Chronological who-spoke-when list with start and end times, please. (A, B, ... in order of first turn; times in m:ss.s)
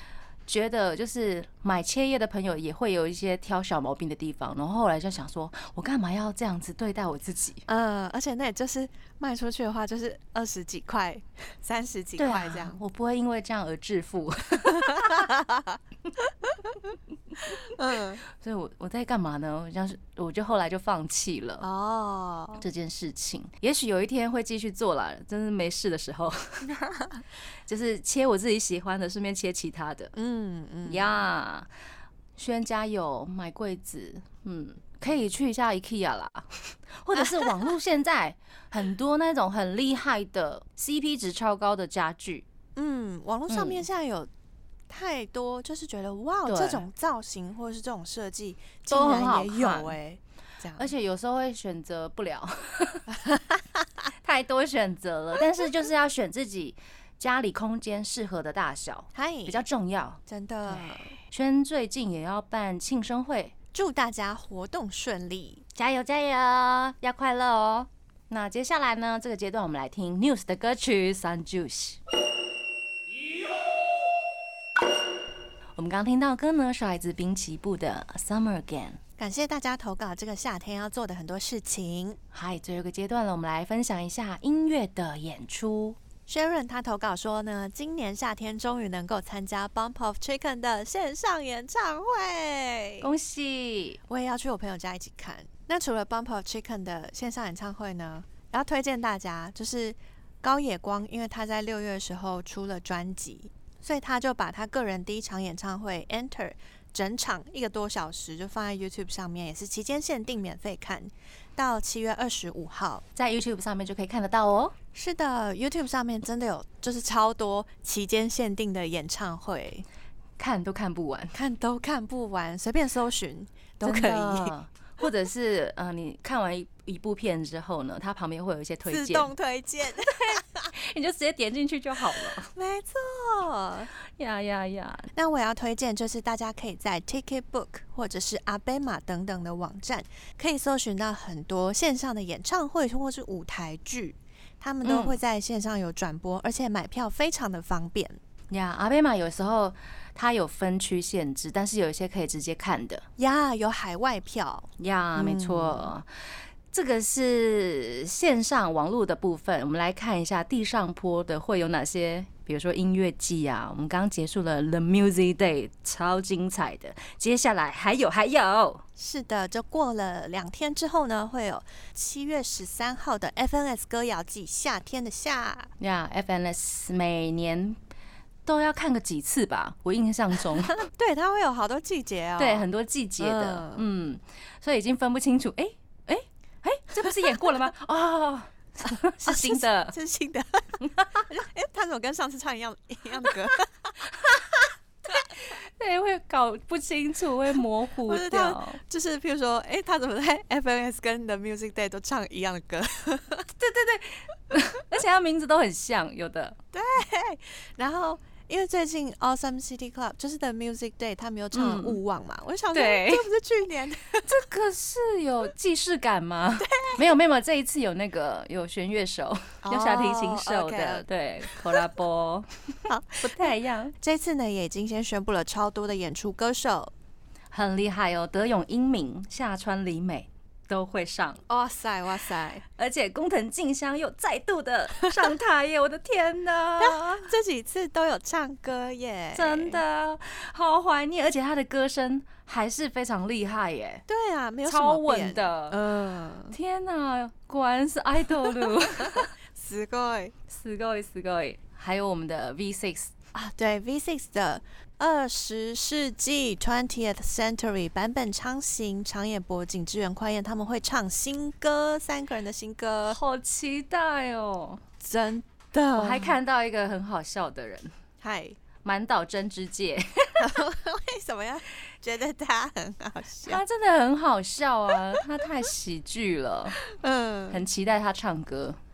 0:00.5-0:07.6 A
0:07.7-0:12.8 B
0:12.2-0:15.3 A
0:14.6-0:16.8 B
0:17.5-0:18.2 B
0:18.3-0:21.6 A
0:21.6-0:22.6 B
0:22.6-0:26.7 A
0:26.7-0:27.2 B
0:27.7-0:30.1 A
0:30.1-0:31.2 B
0:30.8-0:31.7 A
0:32.4-0:42.4 A
0:42.8-0:44.3 B
0:43.5-0:43.8 A
0:44.9-0:50.9 B
0:46.5-0:46.8 A
0:48.9-0:50.0 A
0:50.8-0:53.1 A
0:53.2-0:53.6 B
0:54.2-1:03.6 A
0:59.1-0:59.6 B
1:00.3-1:01.2 B
1:03.7-1:05.6 B
1:05.7-1:12.0 A
1:15.8-1:19.0 A
1:19.2-1:22.2 B
1:22.3-1:26.0 A
1:26.3-1:33.1 B
1:33.0-1:34.0 A
1:34.1-1:53.0 B
1:53.2-1:54.7 A
1:54.9-1:59.8 B
2:00.4-2:01.3 A
2:01.3-2:04.5 B
2:03.8-2:09.3 A
2:08.8-2:10.7 B
2:10.2-2:12.5 A
2:12.1-2:13.9 B
2:14.2-2:15.1 A
2:15.1-2:28.2 B
2:24.8-2:25.2 A
2:28.5-2:33.0 A
2:33.2-2:35.9 B
2:34.8-2:36.1 A
2:36.7-2:48.8 A
2:49.0-2:55.7 B
2:55.8-2:57.8 A
2:58.4-3:00.8 A
3:00.8-3:02.7 B
3:02.4-3:10.0 A
3:03.2-3:03.8 B
3:07.0-3:07.5 B
3:09.2-3:14.4 B
3:10.8-3:11.2 A
3:15.1-3:18.8 A
3:18.0-3:23.5 B
3:23.5-3:26.6 A
3:26.7-3:34.3 B
3:31.5-3:32.0 A
3:32.7-3:33.3 A
3:34.2-3:43.9 A
3:36.6-3:37.0 B
3:39.6-3:41.8 B
3:42.9-3:46.9 B
3:47.5-3:51.4 A
3:51.5-3:52.6 B
3:52.8-3:57.3 A
3:56.8-3:59.8 B
3:59.3-4:04.0 A
4:04.1-4:06.5 B
4:04.6-4:05.8 A
4:06.5-4:09.3 A
4:08.4-4:10.3 B
4:10.5-4:13.1 A
4:13.3-4:23.2 B
4:23.1-4:24.8 A
4:25.0-4:26.4 B
4:26.0-4:27.9 A
4:28.2-4:28.6 B
4:28.8-4:30.6 A
4:30.4-4:33.6 B
4:33.4-4:36.8 A
4:36.8-4:37.6 B
4:37.5-4:38.8 A